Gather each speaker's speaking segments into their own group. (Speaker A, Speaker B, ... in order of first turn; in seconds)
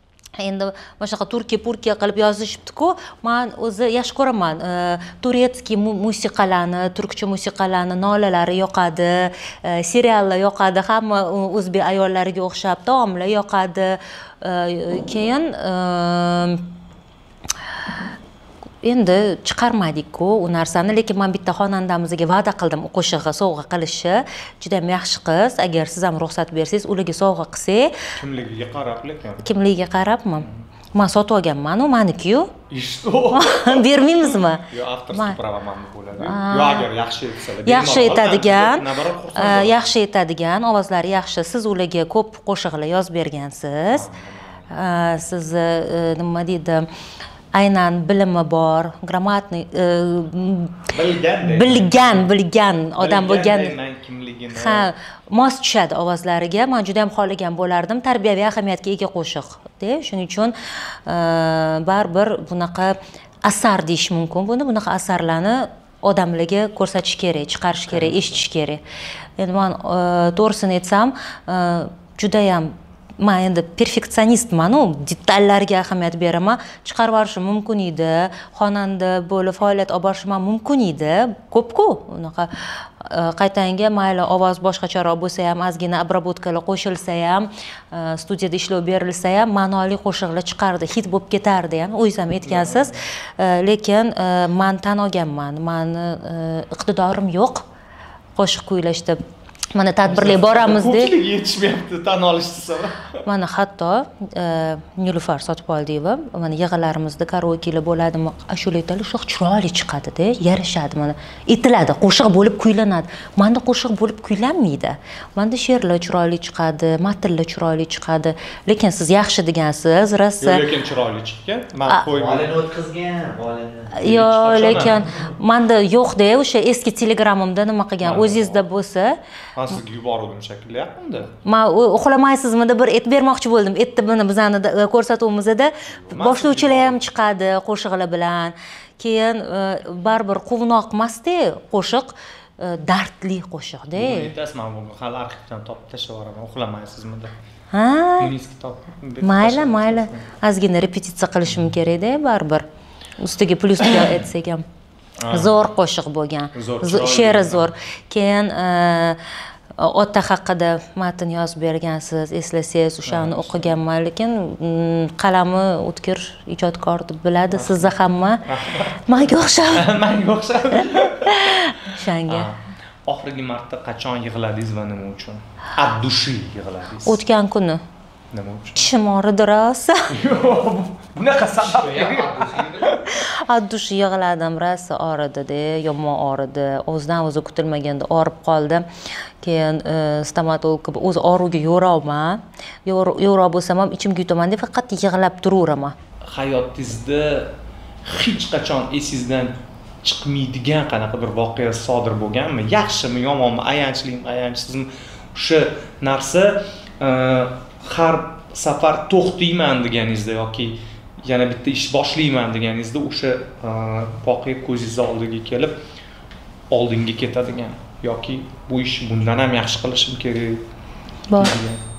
Speaker A: 0.4-16.7, 18.8-28.1, 29.4-32.6, 33.3-35.4, 36.2-36.9, 37.6-44.1, 44.7-46.9, 47.5-53.8, 54.5-60.5, 61.0-68.8, 69.4-82.5, 83.0-97.6, 98.3-99.2, 99.7-101.1, 103.2-120.6, 124.0-129.2, 131.4-144.3, 147.7-148.3, 149.2-152.6, 153.2-154.6, 155.3-159.2, 159.8-168.4, 169.0-169.9, 171.2-172.5, 177.1-177.8, 178.8-180.1, 183.1-188.8, 189.4-195.9, 221.3-221.6
Speaker B: 28.1-29.4, 32.7-39.9, 43.9-44.6, 50.9-52.3, 53.0-54.9, 67.9-68.3, 92.4-93.0, 100.0-103.2, 120.4-122.5, 124.0-125.0, 128.0-128.6, 129.6-131.3, 136.1-137.0, 143.9-147.3, 148.2-150.3, 155.2-155.5, 156.5-157.7, 163.1-163.7, 167.5-167.9, 168.4-177.2, 178.3-178.9, 180.1-183.1, 196.3-197.5, 198.1-215.8, 216.7-220.6, 221.3-221.8
Speaker C: 122.0-124.0, 181.5-183.0